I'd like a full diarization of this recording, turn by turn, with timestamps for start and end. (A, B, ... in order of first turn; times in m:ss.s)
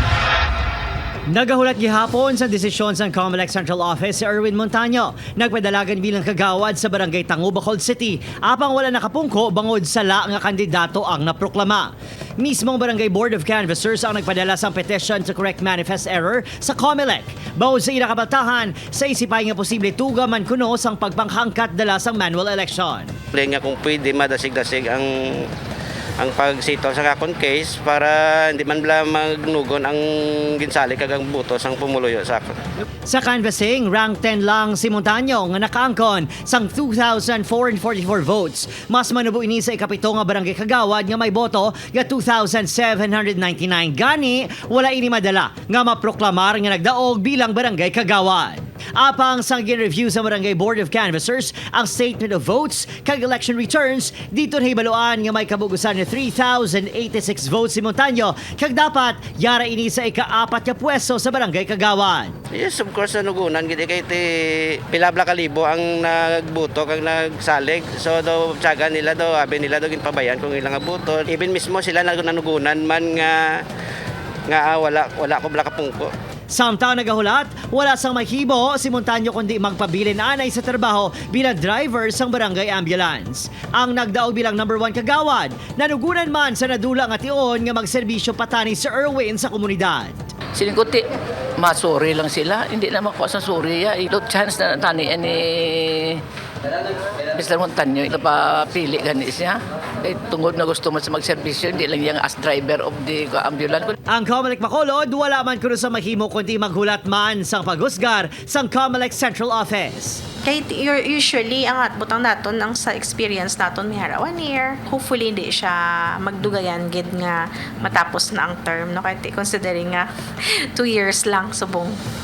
0:01.3-0:23.2 A
0:23.3-0:25.5 B
0:26.2-0:32.5 B
0:33.1-1:02.4 A
1:02.5-1:13.6 B
1:14.5-1:16.1 B
1:16.5-1:30.3 A
1:30.6-1:31.1 C
1:31.6-1:36.2 C
1:37.3-1:43.9 C
1:44.1-1:50.2 A
1:50.4-2:02.0 D